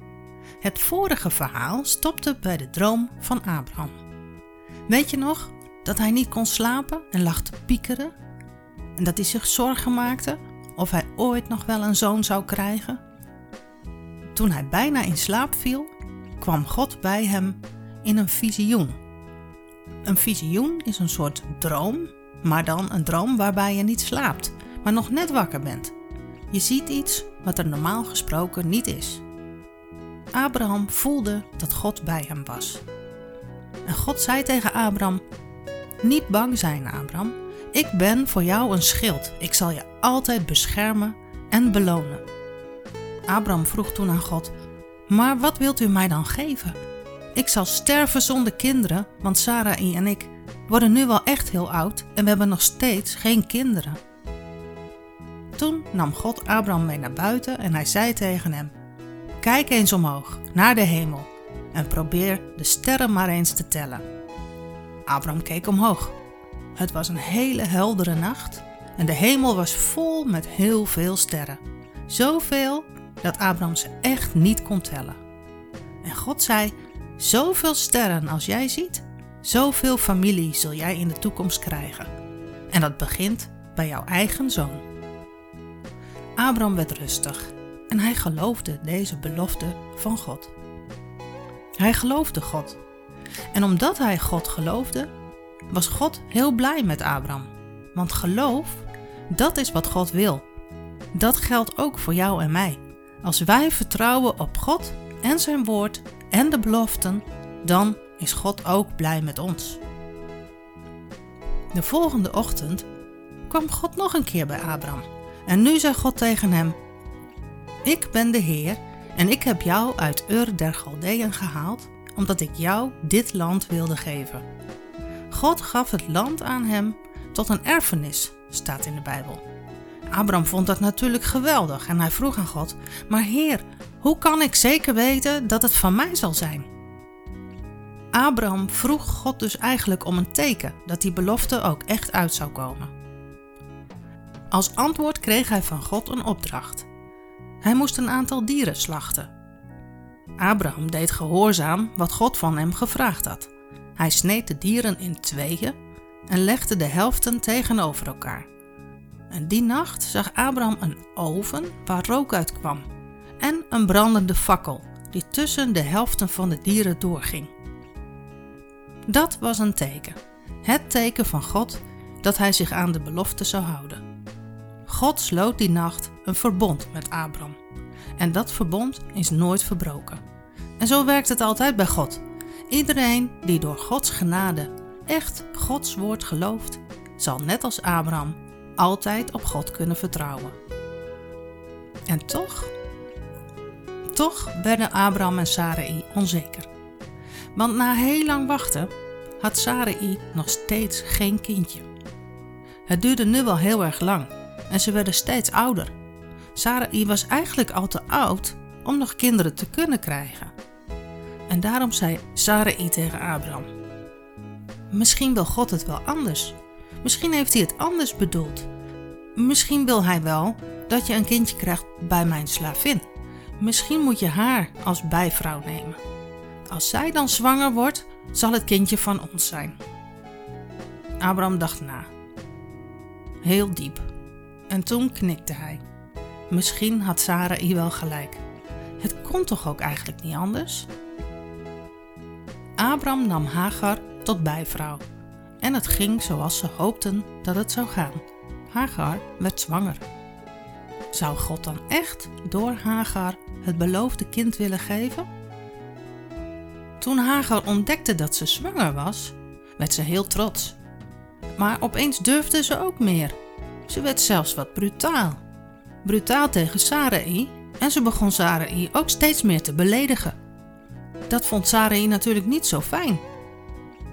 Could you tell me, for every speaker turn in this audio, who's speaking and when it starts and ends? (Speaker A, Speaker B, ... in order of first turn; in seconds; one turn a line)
Speaker A: 0.6-4.0
Speaker A: 4.9-8.1
Speaker A: 9.0-13.0
Speaker A: 14.3-19.0
Speaker A: 20.1-25.9
Speaker A: 26.5-29.2
Speaker A: 30.3-32.8
Speaker A: 33.9-35.2
Speaker A: 36.0-42.2
Speaker A: 43.3-44.5
Speaker A: 45.1-46.8
Speaker A: 47.4-54.0
Speaker A: 55.6-58.7
Speaker A: 59.4-64.0
Speaker A: 65.1-66.2
Speaker A: 66.8-75.2
Speaker A: 76.0-82.1
Speaker A: 82.7-84.8
Speaker A: 86.4-90.5
Speaker A: 91.8-92.8
Speaker A: 93.5-95.1
Speaker A: 95.7-100.5
Speaker A: 101.1-109.8
Speaker A: 111.7-112.9
Speaker A: 113.5-116.8
Speaker A: 117.8-124.5
Speaker A: 125.3-129.4
Speaker A: 130.1-136.7
Speaker A: 138.1-142.9
Speaker A: 144.5-146.9
Speaker A: 147.6-149.3
Speaker A: 150.4-155.8
Speaker A: 156.3-158.5
Speaker A: 159.3-162.9
Speaker A: 163.4-167.5
Speaker A: 169.1-174.0
Speaker A: 174.9-177.6
Speaker A: 178.2-180.2
Speaker A: 180.8-190.6
Speaker A: 192.1-192.7
Speaker A: 194.1-196.7
Speaker A: 197.5-201.9
Speaker A: 202.9-205.9
Speaker A: 206.6-210.5
Speaker A: 211.5-213.7
Speaker A: 214.9-218.7
Speaker A: 219.4-223.1
Speaker A: 223.6-226.0
Speaker A: 226.7-229.8
Speaker A: 231.2-232.1
Speaker A: 233.4-234.1
Speaker A: 234.7-235.8
Speaker A: 236.5-238.4
Speaker A: 239.0-240.9
Speaker A: 242.8-245.0
Speaker A: 245.6-250.1
Speaker A: 251.1-255.3
Speaker A: 257.0-260.8
Speaker A: 261.6-265.4
Speaker A: 266.0-270.4
Speaker A: 271.3-273.2